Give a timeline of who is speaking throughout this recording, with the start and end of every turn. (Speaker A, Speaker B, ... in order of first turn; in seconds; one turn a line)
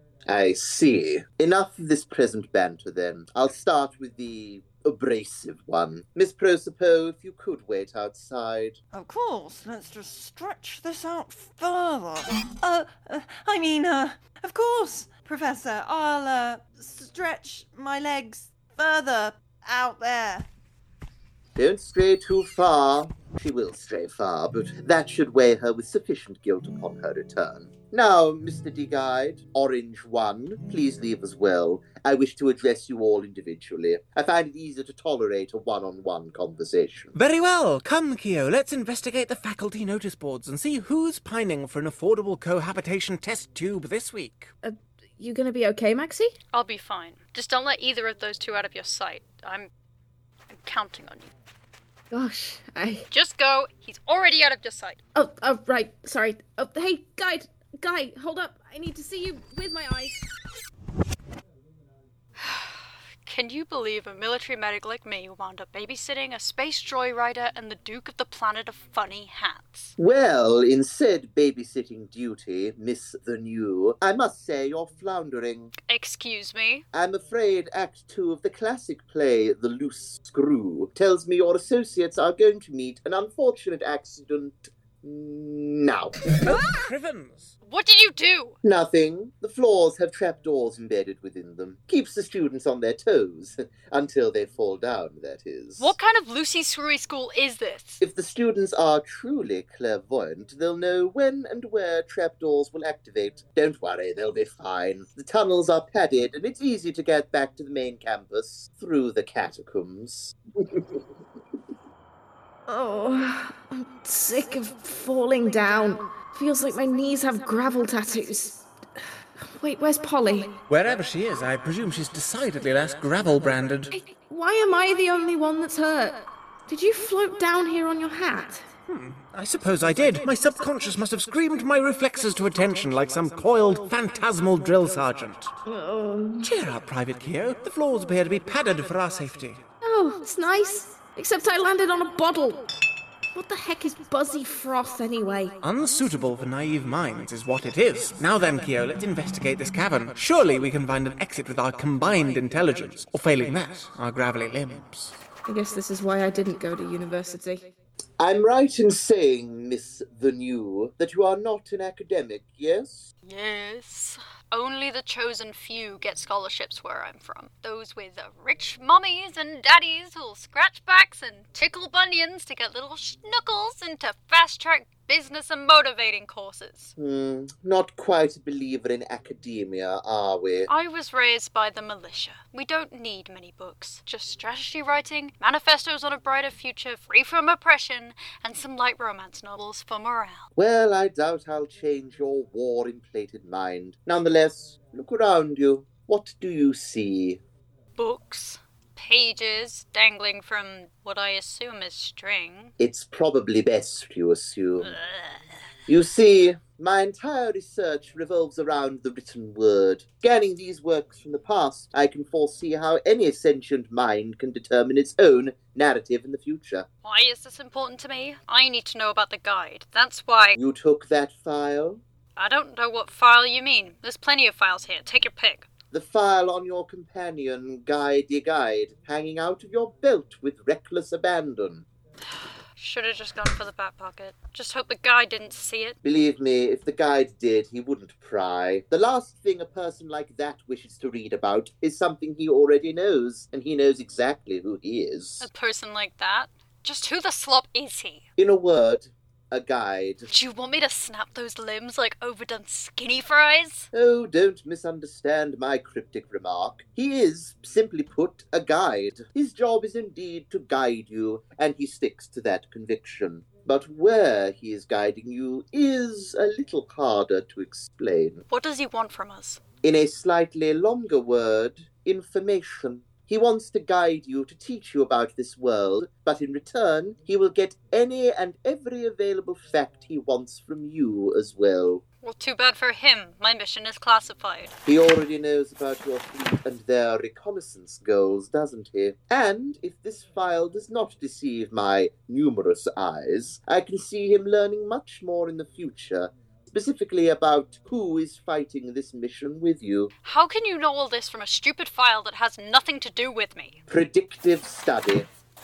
Speaker A: 0.3-8.8
Speaker B: 8.9-20.5
Speaker A: 21.6-37.1
Speaker C: 37.1-44.5
Speaker D: 44.6-46.4
Speaker E: 46.5-49.7
Speaker E: 50.5-51.3
Speaker D: 52.1-53.0
Speaker E: 53.1-55.0
Speaker D: 55.1-60.2
Speaker E: 62.4-69.9
Speaker A: 70.0-75.7
Speaker E: 75.8-76.8
Speaker A: 76.9-86.3
Speaker C: 86.4-87.5
Speaker E: 87.6-88.5
Speaker A: 88.6-96.0
Speaker E: 95.8-98.0
Speaker A: 98.0-110.8
Speaker D: 112.7-118.7
Speaker D: 119.4-120.6
Speaker C: 120.7-123.9
Speaker D: 123.9-128.7
Speaker C: 128.9-135.5
Speaker D: 135.7-136.5
Speaker C: 136.4-139.6
Speaker D: 139.8-142.7
Speaker D: 143.3-145.6
Speaker C: 145.6-155.2
Speaker D: 155.4-157.7
Speaker A: 158.2-163.1
Speaker E: 163.2-176.9
Speaker A: 177.0-180.7
Speaker E: 180.7-190.5
Speaker A: 190.6-197.4
Speaker E: 198.0-202.7
Speaker A: 202.8-204.9
Speaker E: 204.8-205.4
Speaker A: 205.9-216.9
Speaker E: 217.0-220.6
Speaker A: 220.6-222.0
Speaker E: 222.3-225.7
Speaker A: 225.9-231.8
Speaker E: 232.8-236.0
Speaker A: 236.0-245.4
Speaker E: 245.4-248.2
Speaker A: 248.4-250.3
Speaker E: 250.3-253.9
Speaker A: 253.9-268.4
Speaker E: 268.5-269.6
Speaker A: 269.8-282.0
Speaker E: 282.2-284.7
Speaker A: 284.9-300.1
Speaker E: 300.2-303.8
Speaker A: 303.9-305.3